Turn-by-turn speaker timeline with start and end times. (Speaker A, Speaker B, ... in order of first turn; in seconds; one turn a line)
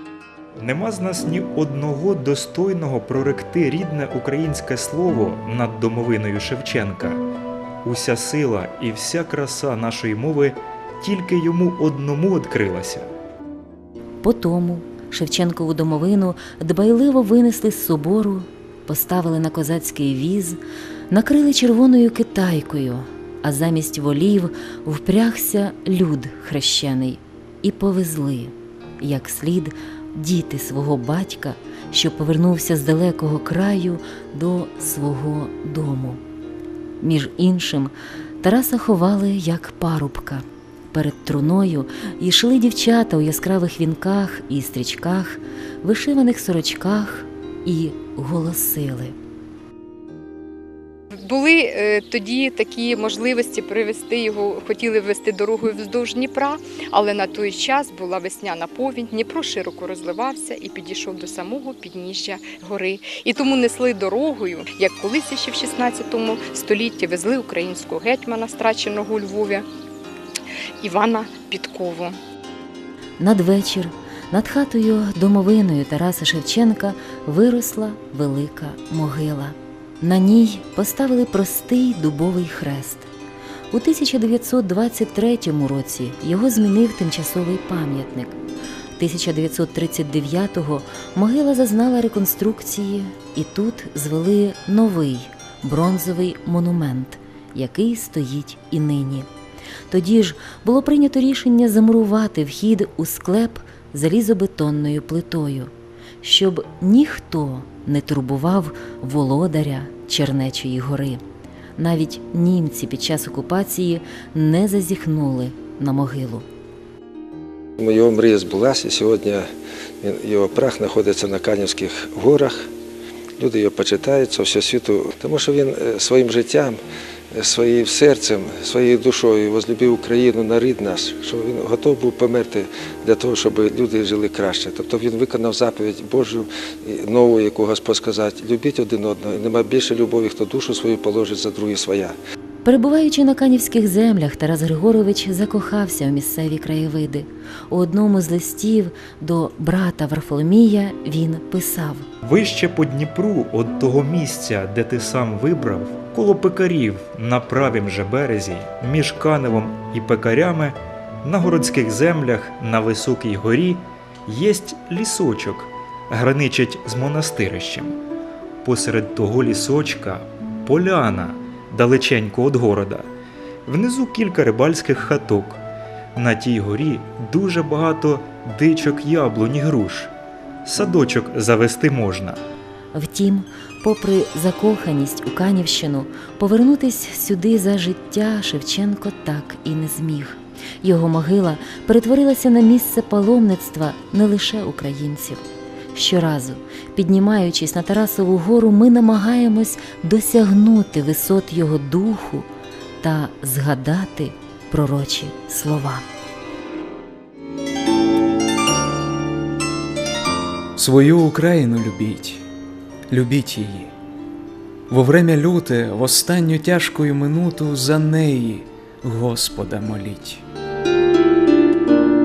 Speaker A: 0.6-7.2
Speaker A: 7.8-13.1
Speaker B: 14.2-36.2
Speaker B: 37.0-49.1
Speaker C: 51.2-69.7
Speaker C: 70.8-72.2
Speaker B: 73.2-83.1
Speaker B: 83.7-88.4
Speaker B: 89.0-99.3
Speaker B: 99.9-105.7
Speaker B: 106.2-111.2
Speaker B: 111.8-116.5
Speaker D: 117.8-119.5
Speaker D: 120.0-122.7
Speaker D: 123.4-126.8
Speaker D: 127.3-142.2
Speaker B: 142.7-152.1
Speaker A: 152.2-168.0
Speaker A: 168.6-173.1
Speaker A: 173.7-175.6
Speaker A: 176.2-180.1
Speaker A: 180.7-182.4
Speaker B: 182.9-202.5
Speaker B: 203.0-206.1
Speaker E: 210.8-212.4
Speaker E: 213.1-213.9
Speaker E: 214.9-220.4